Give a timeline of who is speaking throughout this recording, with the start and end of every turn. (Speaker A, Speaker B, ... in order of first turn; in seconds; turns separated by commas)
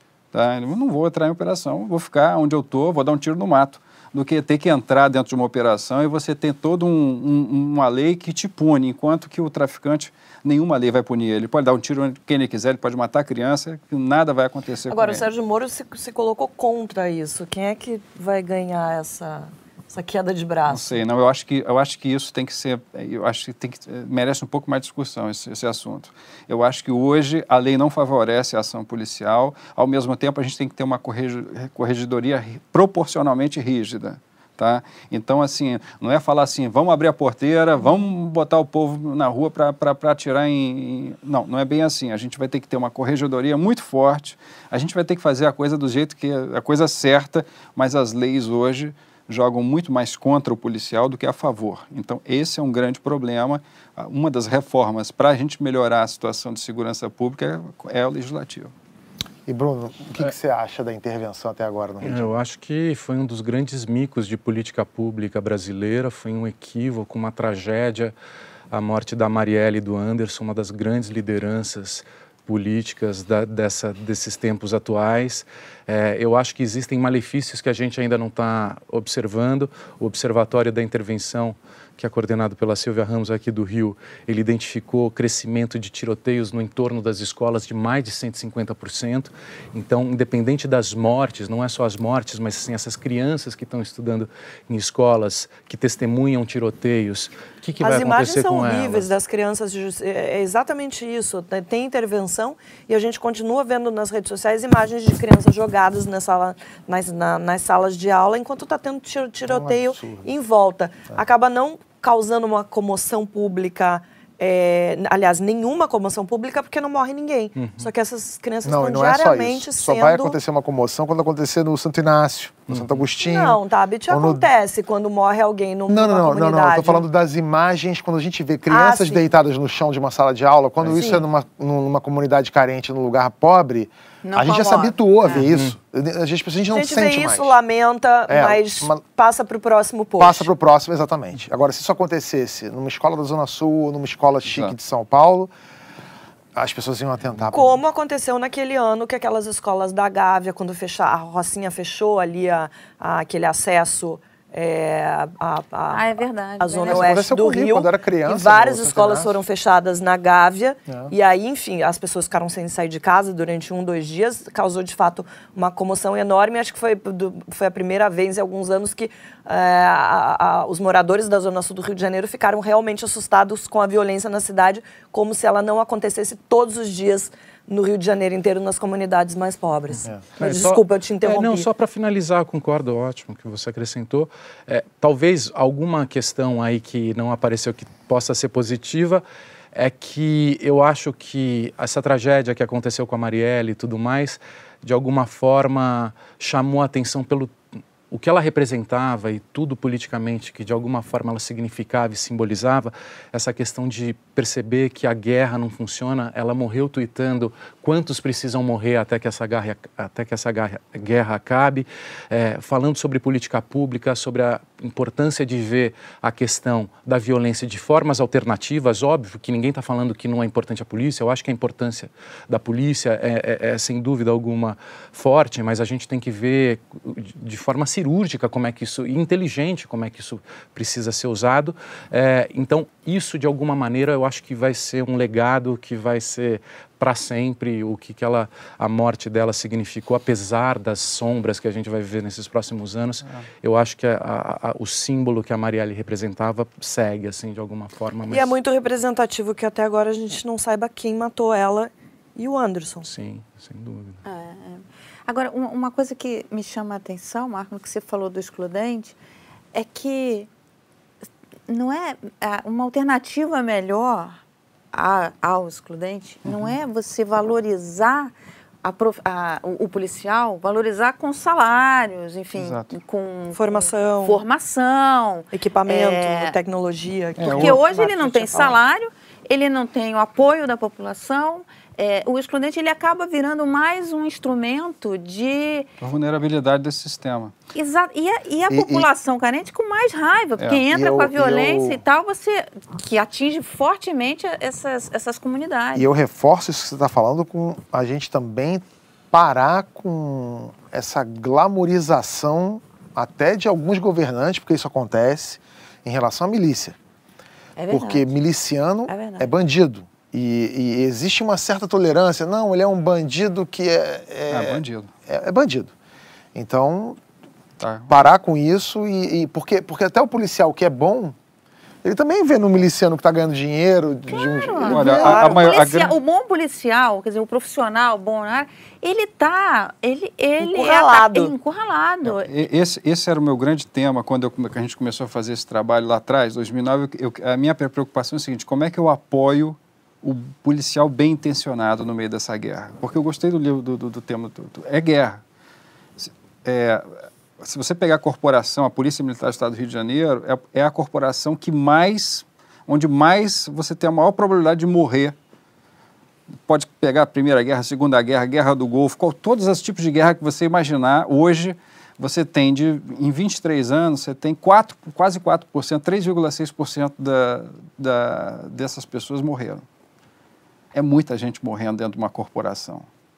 Speaker A: 0.3-15.2, Speaker B: 14.9-21.0, Speaker A: 20.7-58.7, Speaker C: 59.5-62.3, Speaker D: 62.0-68.1, Speaker D: 68.7-99.1, Speaker B: 97.8-120.4, Speaker C: 109.5-110.3, Speaker D: 117.6-117.9, Speaker C: 118.7-124.5, Speaker B: 123.2-127.0, Speaker C: 125.9-137.6, Speaker B: 128.7-129.3, Speaker B: 130.9-131.2, Speaker E: 134.2-135.5, Speaker B: 136.7-140.5, Speaker C: 138.3-139.0, Speaker C: 140.2-145.5, Speaker A: 144.5-144.8, Speaker C: 146.6-147.8, Speaker B: 147.5-156.1, Speaker E: 155.9-157.3, Speaker B: 156.6-181.7, Speaker C: 156.8-159.3, Speaker C: 160.9-161.1, Speaker D: 180.0-197.6, Speaker D: 198.1-248.6, Speaker B: 248.3-253.1, Speaker D: 253.0-254.2, Speaker E: 254.2-259.2, Speaker E: 259.7-260.5, Speaker E: 261.7-264.4, Speaker E: 264.9-268.3, Speaker A: 266.4-266.8, Speaker E: 268.8-276.6, Speaker A: 272.6-272.9, Speaker B: 273.6-274.4, Speaker B: 275.5-278.8, Speaker A: 277.4-277.8, Speaker E: 277.5-285.9, Speaker A: 286.0-287.5, Speaker E: 287.8-296.1, Speaker C: 288.7-289.1, Speaker C: 290.9-292.0, Speaker C: 295.9-307.0, Speaker E: 307.8-308.3, Speaker C: 307.9-315.9, Speaker E: 309.1-309.5, Speaker A: 314.5-315.1, Speaker C: 316.6-317.2, Speaker A: 317.8-318.1, Speaker C: 318.1-321.4, Speaker C: 322.0-325.5, Speaker E: 324.3-332.5, Speaker A: 324.9-326.2, Speaker B: 324.9-325.7, Speaker B: 330.6-331.5, Speaker A: 332.2-345.4, Speaker A: 346.2-347.1, Speaker A: 347.6-355.4, Speaker A: 356.7-369.9, Speaker A: 370.9-373.1